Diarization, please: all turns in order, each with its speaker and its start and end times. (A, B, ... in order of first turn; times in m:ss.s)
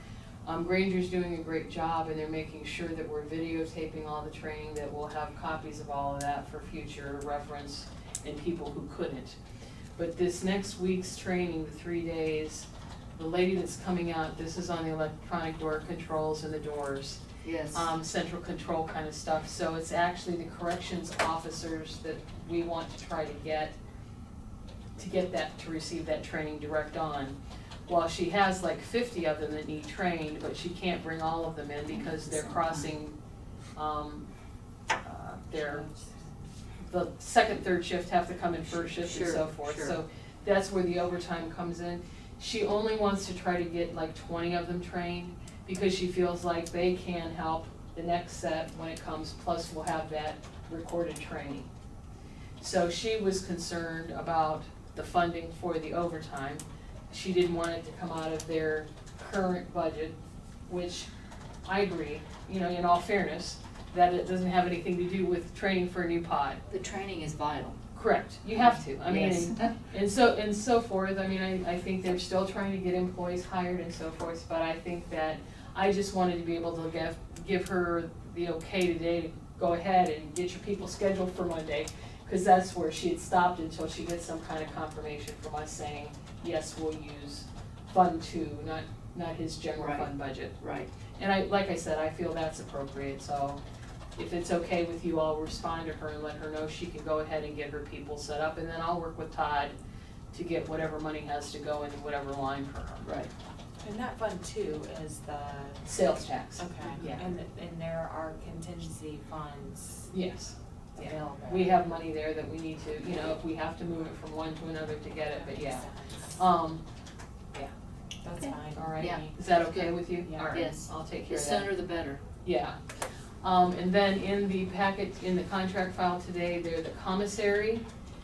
0:00.4-0:09.4 A
0:10.0-0:17.2 A
0:17.4-0:17.9 B
0:17.7-0:23.8 A
0:25.0-0:33.2 A
0:32.0-0:32.8 B
0:33.7-0:34.3 A
0:35.0-0:35.8 A
0:36.8-0:51.7 A
0:39.0-0:40.0 B
0:52.6-1:00.2 A
1:00.7-1:01.1 A
1:01.6-1:06.6 A
1:06.7-1:07.8 B
1:07.9-1:30.6 A
1:08.5-1:09.7 B
1:29.8-1:30.9 B
1:31.2-1:33.6 A
1:34.2-1:39.8 A
1:40.3-1:43.0 A
1:43.0-1:43.3 B
1:43.8-1:45.8 C
1:45.8-1:47.3 A
1:46.6-1:50.1 C
1:50.1-1:56.8 A
1:51.0-1:51.7 C
1:55.3-1:56.2 C
1:58.2-1:59.1 C
1:58.7-2:01.7 A
1:59.0-2:02.2 B
2:00.2-2:00.6 C
2:02.4-2:02.8 A
2:03.4-2:07.8 A